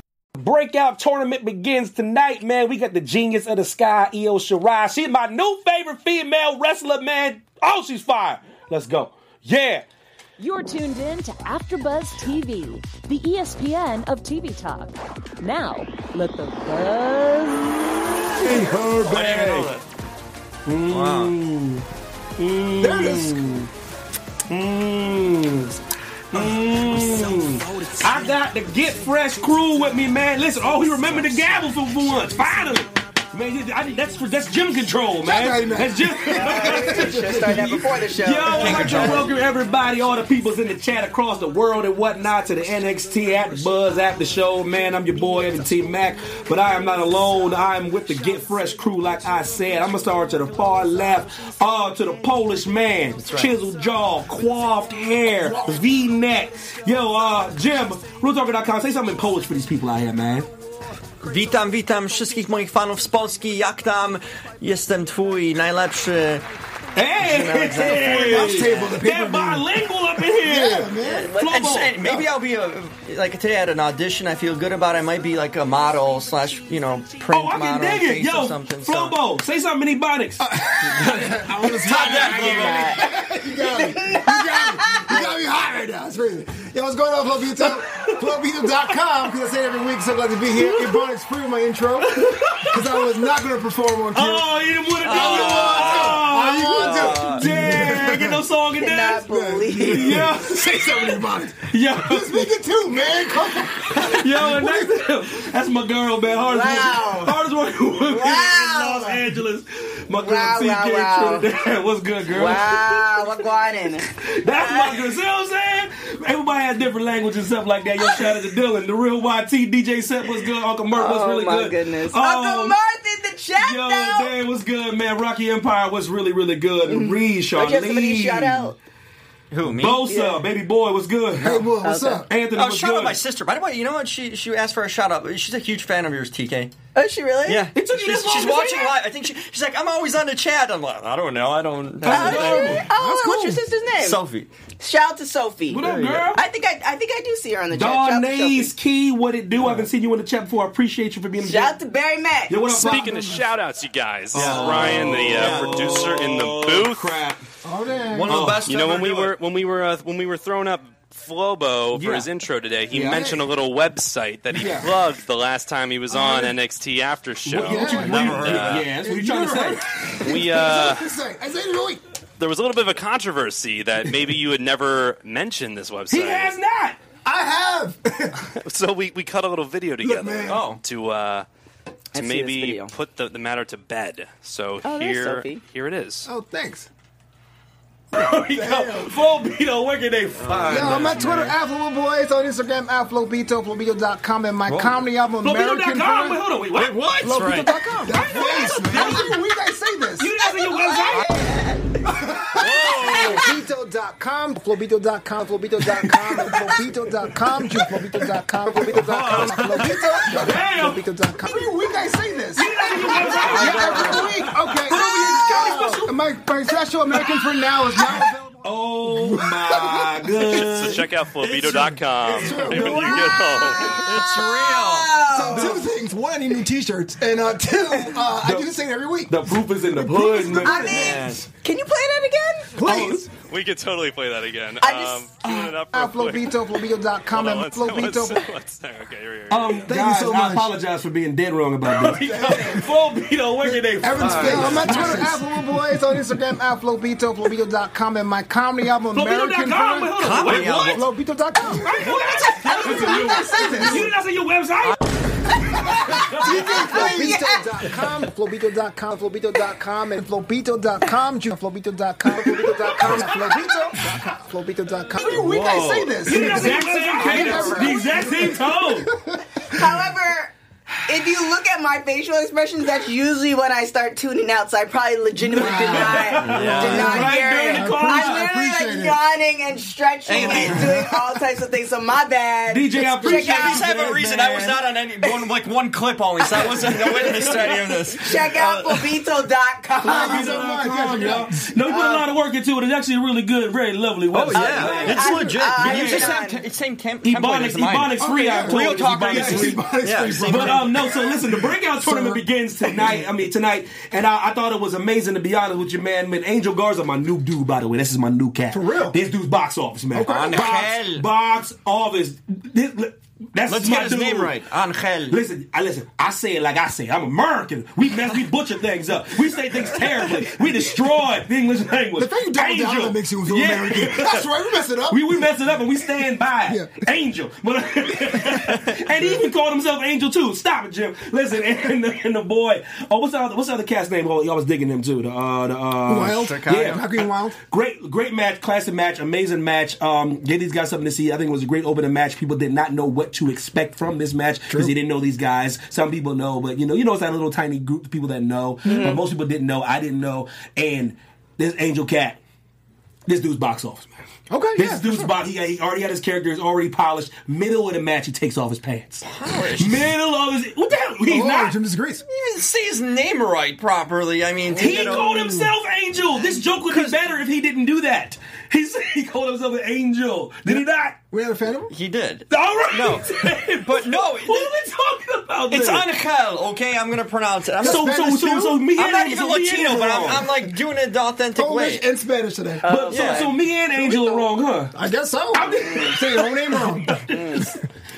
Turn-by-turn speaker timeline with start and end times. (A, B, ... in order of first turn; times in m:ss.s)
0:00.4-0:09.8 A
0:10.4-0:18.6 B
0:18.4-0:19.7 A
0:19.0-0:19.8 C
0:20.7-0:21.8 A
0:20.9-0:21.3 C
0:22.4-0:23.7 A
0:22.8-0:23.4 D
0:24.5-0:25.7 A
0:26.3-1:00.5 A
0:35.2-0:37.8 D
0:36.2-0:39.2 E
0:38.5-0:39.3 C
0:53.2-0:53.6 C
0:55.4-0:55.8 D
1:01.2-1:06.4 C
1:07.0-1:12.2 A
1:07.2-1:08.9 C
1:08.0-1:09.7 D
1:10.4-1:11.3 D
1:11.0-1:19.2 C
1:11.1-1:11.6 E
1:17.3-1:20.5 A
1:20.4-1:38.4 D
1:20.8-1:23.0 C
1:21.0-1:22.8 A
1:22.3-1:25.3 E
1:27.7-1:28.2 A
1:32.2-1:32.8 A
1:34.1-1:39.2 A
1:35.0-1:37.7 C
1:38.8-1:40.2 E
1:39.2-1:45.0 D
1:39.8-1:42.4 A
1:43.9-1:53.3 A
1:46.5-1:47.4 E
1:48.0-1:49.2 E
1:50.2-1:51.5 E
1:52.3-1:55.0 E
1:54.1-2:02.8 A
2:00.9-2:04.3 E
2:03.6-2:08.8 A
2:06.9-2:08.8 E
2:09.5-2:10.2 C
2:09.6-2:11.7 A
2:10.1-2:10.4 E
2:11.4-2:12.3 D
2:11.8-2:12.2 E
2:12.3-2:13.2 A
2:12.6-2:16.7 C
2:17.0-2:17.6 E
2:17.4-2:22.8 C
2:17.8-2:19.0 A
2:22.0-2:22.9 A
2:22.1-2:24.2 E
2:22.9-2:23.6 D
2:24.0-2:24.5 C
2:24.8-2:28.7 E
2:25.7-2:26.4 A
2:25.8-2:26.3 C
2:27.7-2:31.8 A
2:29.6-2:29.9 C
2:31.4-2:32.6 E
2:32.5-2:33.4 A
2:32.7-2:37.2 F
2:32.8-2:33.4 D
2:34.3-2:37.4 A
2:34.3-2:36.1 C
2:37.6-2:38.4 D
2:38.1-2:39.4 C
2:38.3-2:38.7 A
2:38.6-2:48.8 F
2:41.9-2:42.3 A
2:42.9-2:43.3 A
2:43.1-2:43.5 D
2:44.6-2:44.9 A
2:47.5-2:50.1 A
2:47.6-2:52.0 D
2:48.0-2:48.9 C
2:50.2-2:51.1 F
2:52.4-2:56.5 F
2:56.1-2:57.0 A
2:57.2-2:58.5 D
2:58.6-3:01.5 F
3:00.0-3:00.7 D
3:00.4-3:00.8 C
3:02.1-3:02.9 E
3:02.2-3:06.3 F
3:04.8-3:05.6 E
3:06.2-3:06.9 D
3:08.1-3:11.5 A
3:08.5-3:09.2 D
3:10.4-3:11.5 C
3:10.7-3:16.4 D
3:14.7-3:15.0 C
3:15.4-3:17.1 A
3:16.7-3:19.4 C
3:17.2-3:20.4 D
3:18.1-3:19.3 A
3:20.2-3:21.4 A
3:21.1-3:21.9 C
3:22.0-3:40.6 D
3:22.6-3:23.5 C
3:22.6-3:23.4 F
3:23.1-3:23.4 E
3:28.9-3:30.3 C
3:29.0-3:31.6 A
3:32.5-3:36.2 A
3:33.4-3:34.3 C
3:33.5-3:34.4 F
3:35.4-3:35.7 E
3:38.6-3:41.1 A
3:40.5-3:44.3 F
3:41.4-3:43.2 C
3:42.2-3:44.2 D
3:42.9-3:45.8 E
3:44.0-3:45.2 C
3:45.3-3:51.2 D
3:45.6-3:45.8 A
3:48.3-3:48.7 A
3:49.3-3:51.2 A
3:50.6-3:52.7 E
3:50.8-3:51.5 C
3:52.8-3:53.3 D
3:52.8-3:53.3 A
3:52.9-3:56.7 F
3:54.8-3:55.2 E
3:55.5-3:58.4 D
3:57.3-3:59.9 F
3:59.5-4:05.4 A
3:59.9-4:00.7 D
4:02.0-4:02.9 D
4:03.6-4:14.2 D
4:04.2-4:04.9 C
4:04.4-4:04.8 F
4:09.1-4:11.1 A
4:10.2-4:11.1 C
4:11.7-4:15.0 A
4:12.6-4:13.9 C
4:15.8-4:29.8 D
4:15.9-4:17.6 E
4:16.2-4:17.3 A
4:25.2-4:29.2 A
4:26.4-4:27.7 F
4:27.5-4:28.1 E
4:29.7-4:30.5 E
4:31.0-4:43.9 E
4:35.5-4:39.2 D
4:35.5-4:38.5 A
4:36.5-4:37.3 F
4:40.3-4:40.7 C
4:40.3-4:40.8 F
4:40.3-4:40.9 A
4:40.4-4:41.1 D
4:42.7-4:44.8 A
4:43.3-4:49.1 C
4:45.2-4:45.5 E
4:46.5-4:47.8 A
4:46.9-4:50.7 E
4:49.9-4:56.4 A
4:50.0-4:51.6 D
4:51.8-4:52.3 E
4:54.3-5:01.1 C
4:54.5-4:56.6 E
4:55.1-4:55.6 D
4:57.2-5:14.6 A
4:58.2-5:03.2 D
5:08.7-5:09.2 D
5:10.1-5:10.9 D
5:10.2-5:11.2 C
5:13.7-5:15.4 C
5:15.3-5:24.5 A
5:22.2-5:25.5 D
5:25.1-5:52.4 A
5:26.7-5:27.1 D
5:28.5-5:28.8 D
5:36.0-5:37.6 D
5:36.4-5:37.0 C
5:48.9-5:49.2 E
5:53.3-5:54.1 A
5:54.5-5:55.4 D
5:54.8-6:01.8 A
5:59.2-6:00.1 C
6:01.2-6:02.2 D
6:02.3-6:05.7 C
6:04.8-6:11.2 A
6:04.8-6:05.5 D
6:06.9-6:07.3 C
6:10.7-6:11.9 D
6:11.9-6:14.8 C
6:12.5-6:16.1 A
6:15.7-6:18.2 C
6:17.8-6:18.8 D
6:17.8-6:20.5 A
6:19.0-6:22.1 C
6:21.6-6:22.9 D
6:22.8-6:23.5 E
6:22.9-6:25.0 A
6:23.1-6:23.5 C
6:24.1-6:27.3 D
6:25.5-6:27.8 A
6:27.3-6:27.8 E